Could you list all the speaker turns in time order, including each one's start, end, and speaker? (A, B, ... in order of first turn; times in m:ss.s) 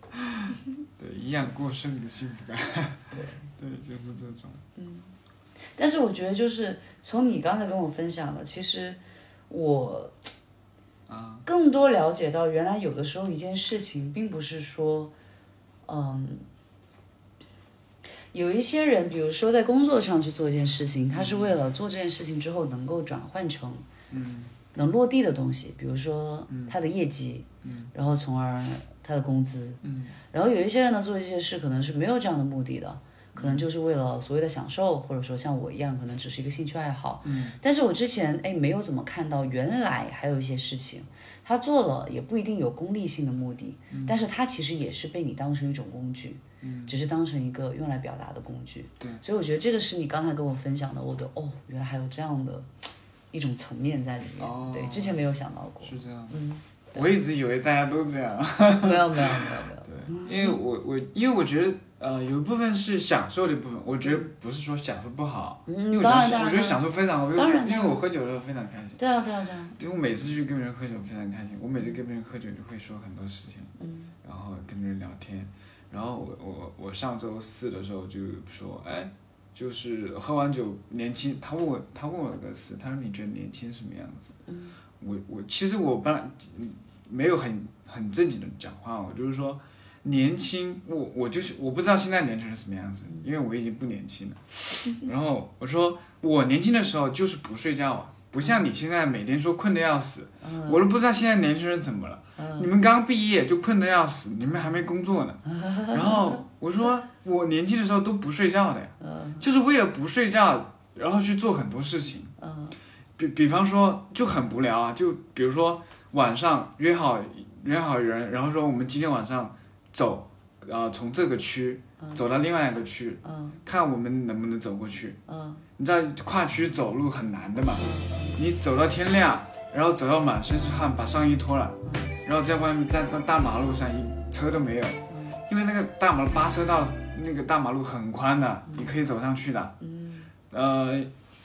0:00.1-0:04.6 A
0:03.1-0:03.5 B
0:04.8-0:05.2 B
0:05.7-0:10.2 B
0:11.1-0:11.5 A
0:11.4-0:15.1 B
0:15.8-0:16.4 B
0:18.3-0:23.8 B
0:21.1-0:21.6 A
0:24.1-0:24.5 A
0:24.7-0:52.7 B
0:26.5-0:26.7 A
0:27.6-0:27.9 A
0:29.8-0:30.2 A
0:33.3-0:33.7 A
0:37.2-0:37.6 A
0:43.9-0:44.2 A
0:46.6-0:47.0 A
0:53.3-0:57.0 B
0:54.4-0:55.3 A
0:55.8-0:56.4 A
0:56.9-1:09.0 A
0:58.8-1:00.6 B
1:05.7-1:08.0 B
1:09.0-1:09.8 B
1:09.8-1:13.7 A
1:13.8-1:14.1 B
1:14.2-1:24.4 A
1:24.5-1:24.8 B
1:25.0-1:52.3 A
1:40.4-1:40.8 B
1:42.4-1:42.7 B
1:45.5-1:46.4 B
1:49.0-1:49.4 B
1:52.4-1:52.8 B
1:53.2-2:05.2 A
2:03.2-2:03.6 B
2:05.3-2:05.6 B
2:05.8-2:19.8 A
2:07.8-2:08.4 B
2:11.8-2:12.1 B
2:15.1-2:15.4 B
2:19.8-2:20.3 B
2:20.5-2:21.1 A